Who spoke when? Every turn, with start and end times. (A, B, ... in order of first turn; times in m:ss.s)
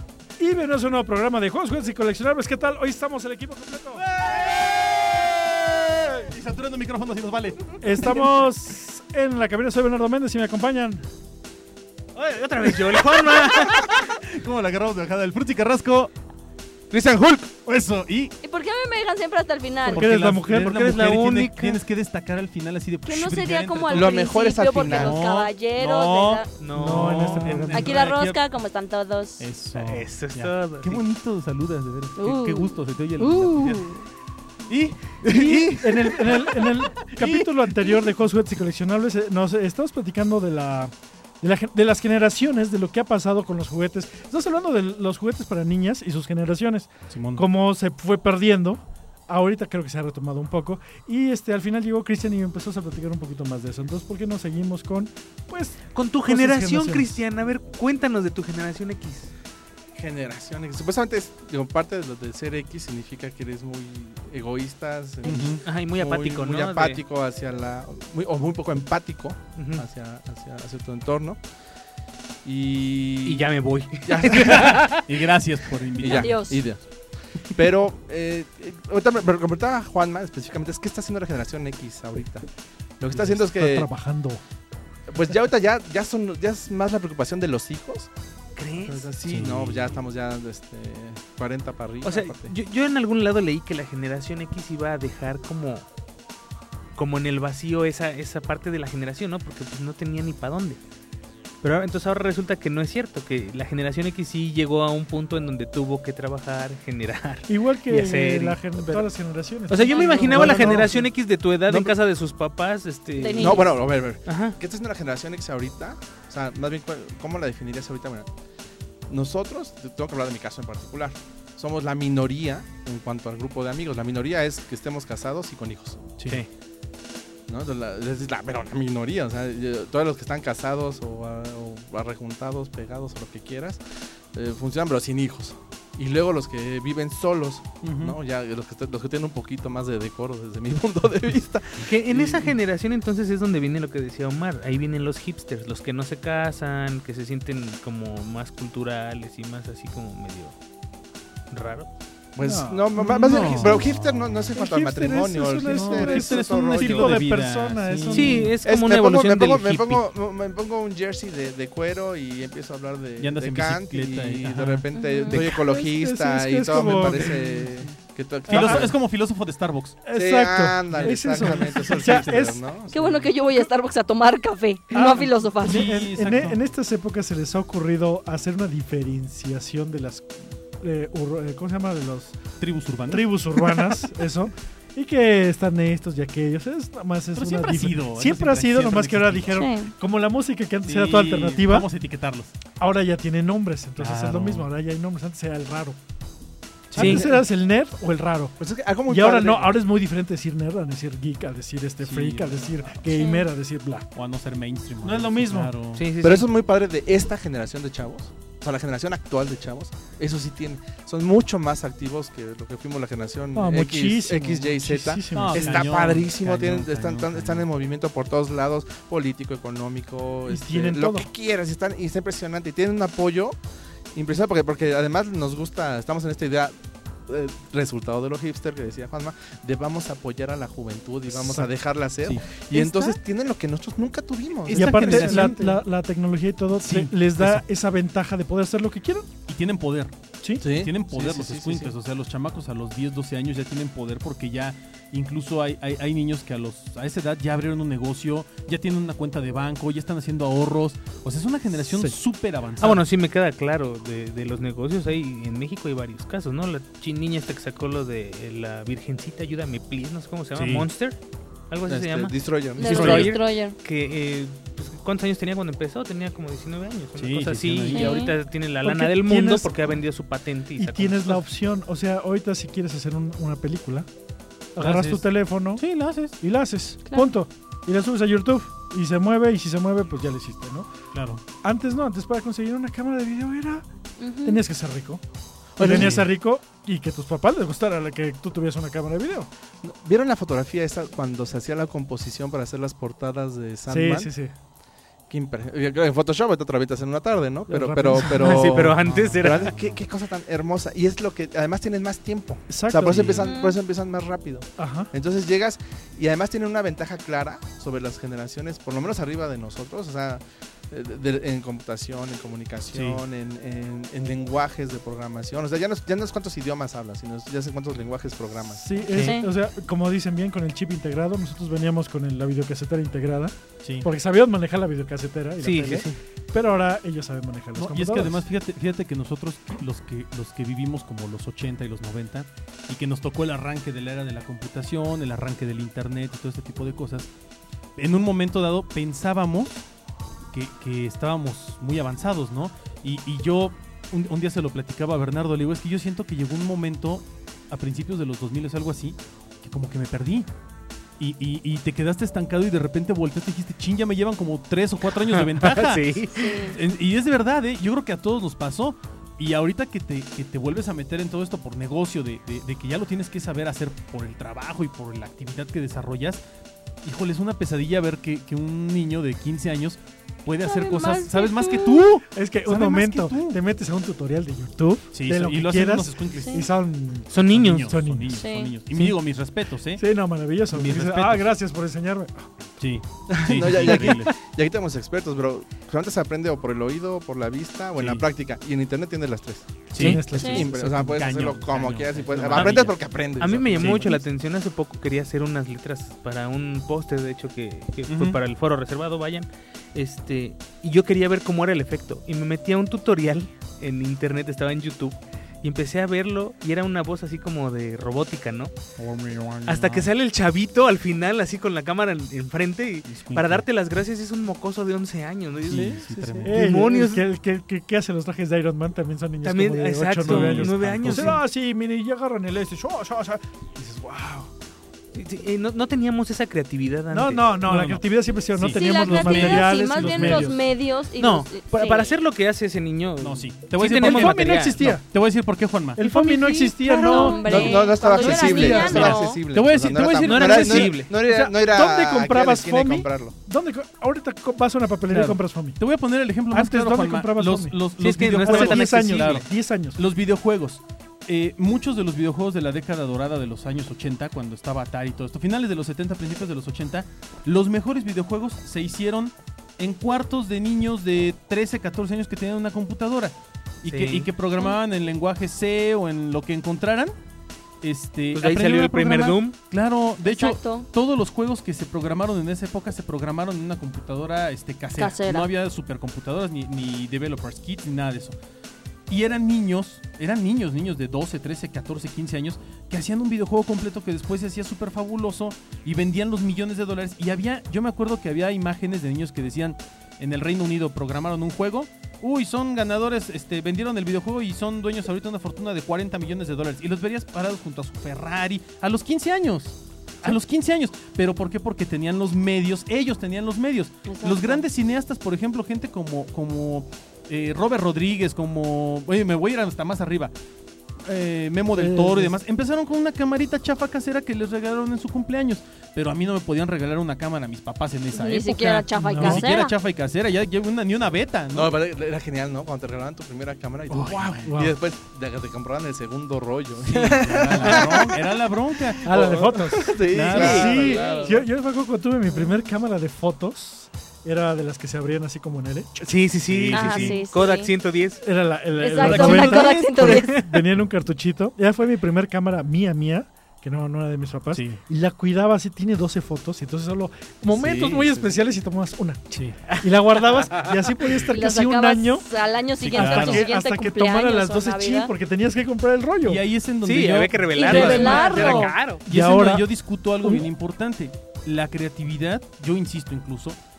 0:00.4-0:04.0 A
0:04.0-0:08.3 B
0:07.8-0:11.0 A
0:12.1-0:14.1 C
0:12.6-0:16.1 B
0:16.9-0:17.5 D
0:17.6-0:18.3 B
0:18.4-0:20.0 E
0:19.8-0:20.8 A
0:19.8-0:24.2 B
0:20.7-0:21.8 C
0:23.0-0:26.5 E
0:23.9-0:25.2 D
0:24.8-0:28.4 B
0:26.6-0:27.7 C
0:26.7-0:27.9 A
0:27.7-0:29.5 E
0:29.4-0:34.0 B
0:29.7-0:31.0 C
0:32.2-0:34.0 E
0:34.7-0:38.0 B
0:35.3-0:57.2 A
0:47.1-0:47.4 B
0:55.9-0:59.3 C
0:59.9-1:11.4 D
1:05.2-1:05.5 E
1:05.2-1:05.6 B
1:05.6-1:07.0 C
1:09.6-1:09.8 C
1:12.4-1:13.5 D
1:13.2-1:15.2 C
1:14.0-1:14.9 D
1:14.3-1:16.5 B
1:16.0-1:16.6 E
1:16.0-1:16.8 D
1:17.5-1:22.5 D
1:23.0-1:23.9 D
1:23.1-1:24.4 A
1:25.1-1:28.1 D
1:28.6-1:29.1 C
1:28.8-1:32.5 D
1:29.2-1:29.9 B
1:32.0-1:35.9 C
1:37.0-1:40.8 C
1:41.6-1:49.1 C
1:47.5-1:51.1 A
1:49.7-1:53.7 C
1:49.8-1:50.8 E
1:51.7-1:51.9 D
1:53.2-1:53.7 E
1:53.4-1:58.3 D
1:54.2-1:54.6 C
1:59.1-2:06.1 D
2:07.5-2:13.8 D
2:14.3-2:22.5 D
2:17.8-2:18.2 B
2:21.8-2:30.6 C
2:31.5-2:31.9 C
2:32.3-2:37.2 D
2:32.4-2:33.8 A
2:33.0-2:34.5 B
2:34.5-2:38.5 A
2:35.7-2:38.5 B
2:38.1-2:40.0 C
2:38.6-2:48.9 D
2:43.2-2:45.5 B
2:44.9-2:45.4 E
2:45.3-2:47.4 A
2:47.1-2:47.7 B
2:48.5-2:48.9 A
2:48.5-2:50.0 B
2:50.0-2:52.6 A
2:50.1-2:53.3 D
2:50.9-2:52.3 B
2:52.9-2:55.9 E
2:54.9-3:02.4 A
2:55.6-2:56.6 B
3:02.6-3:03.9 B
3:03.1-3:11.9 A
3:07.4-3:09.7 B
3:09.5-3:09.9 E
3:10.8-3:12.5 B
3:12.8-3:16.0 A
3:14.0-3:14.7 B
3:16.9-3:17.3 B
3:16.9-3:18.5 A
3:17.0-3:17.3 C
3:17.0-3:17.4 D
3:18.6-3:19.8 D
3:19.1-3:24.1 A
3:22.0-3:23.0 B
3:23.1-3:23.5 E
3:24.1-3:26.0 B
3:25.0-3:25.7 A
3:25.9-3:26.5 C
3:26.2-3:43.6 D
3:33.5-3:35.7 A
3:35.3-3:37.6 B
3:40.5-3:41.3 A
3:44.1-3:55.7 D
3:51.3-3:51.7 A
3:52.8-3:53.1 A
3:54.7-3:55.8 B
3:54.7-3:59.3 A
3:56.7-3:57.6 B
3:59.5-4:13.0 B
4:00.6-4:01.9 D
4:11.8-4:12.1 A
4:12.8-4:21.2 C
4:20.5-4:20.9 B
4:21.7-4:31.4 C
4:21.9-4:23.3 D
4:22.8-4:23.8 E
4:22.8-4:23.3 B
4:27.2-4:28.3 B
4:27.9-4:28.3 E
4:28.8-4:30.0 A
4:30.8-4:34.1 A
4:34.7-4:35.8 A
4:34.8-4:36.3 B
4:36.4-4:40.9 A
4:41.1-4:41.4 B
4:41.6-4:43.8 A
4:44.2-4:44.6 E
4:44.4-4:45.2 A
4:45.8-4:46.2 D
4:45.8-4:49.5 A
4:45.8-4:46.3 B
4:49.8-4:54.3 D
4:53.9-4:54.5 A
4:55.3-5:19.0 D
4:57.7-4:58.6 A
4:58.2-4:59.8 C
4:58.7-5:00.0 B
5:02.7-5:03.3 A
5:03.1-5:03.5 B
5:03.4-5:03.8 E
5:04.8-5:05.1 A
5:12.9-5:13.2 B
5:18.7-5:28.4 A
5:19.1-5:19.4 B
5:19.2-5:19.5 E
5:25.6-5:26.2 C
5:27.8-5:37.3 B
5:38.0-5:39.8 B
5:40.5-5:50.5 B
5:51.2-6:06.4 B
5:55.2-5:56.5 C
5:56.3-5:56.8 E
6:07.0-6:13.6 B
6:10.6-6:12.1 E
6:12.3-6:19.1 A
6:15.1-6:16.7 B
6:16.4-6:16.7 E
6:17.3-6:17.9 C
6:17.5-6:20.0 B
6:18.3-6:18.7 E
6:20.0-6:22.7 A
6:20.7-6:21.5 B
6:22.8-6:24.3 B
6:23.3-6:34.1 D
6:28.0-6:28.2 B
6:29.9-6:33.0 B
6:30.0-6:31.2 A
6:30.0-6:30.2 C
6:30.3-6:30.6 E
6:33.4-6:48.7 C
6:33.5-6:34.2 B
6:38.1-6:38.4 B
6:49.0-6:50.1 B
6:49.6-6:57.2 C
6:53.1-6:53.6 B
6:55.7-6:56.5 B
6:55.7-6:56.4 D
6:56.4-7:04.5 A
6:59.4-7:01.4 C
7:00.2-7:01.4 B
7:05.1-7:07.6 C
7:07.1-7:10.6 A
7:07.6-7:10.5 B
7:08.7-7:12.2 E
7:11.1-7:14.8 C
7:13.2-7:16.0 B
7:14.0-7:15.0 A
7:16.0-7:19.2 A
7:16.0-7:17.8 C
7:16.8-7:19.4 E
7:17.4-7:23.3 D
7:18.7-7:19.1 C
7:18.9-7:20.9 B
7:20.2-7:21.1 C
7:21.1-7:25.8 A
7:25.1-7:47.1 B
7:26.5-7:27.8 A
7:28.0-7:29.4 C
7:28.4-7:30.0 A
7:43.8-7:44.3 C
7:47.8-7:58.4 B
7:48.3-7:49.6 C
7:50.2-7:50.8 E
7:55.0-7:55.5 E
7:59.1-8:30.3 B
8:24.0-8:24.6 E
8:31.0-8:41.7 B
8:31.8-8:32.4 A
8:38.1-8:39.7 E
8:38.9-8:39.5 A
8:41.5-8:48.3 D
8:43.9-8:44.5 B
8:44.4-8:44.7 A
8:46.8-8:49.0 B
8:49.0-8:51.4 D
8:49.0-8:56.1 A
8:50.1-8:50.8 B
8:50.3-8:51.2 C
8:56.0-8:58.2 C
8:56.5-8:57.2 B
8:56.7-8:57.7 E
8:58.2-9:12.3 A
8:58.8-9:00.3 E
8:59.0-9:00.1 B
9:00.1-9:00.6 C
9:04.5-9:04.8 B
9:07.5-9:08.1 D
9:09.3-9:09.6 B
9:09.6-9:10.9 C
9:11.2-9:15.1 E
9:12.8-9:13.5 B
9:12.9-9:16.4 A
9:16.2-9:23.6 B
9:16.8-9:19.0 C
9:17.5-9:18.7 E
9:17.7-9:19.7 A
9:20.2-9:20.5 A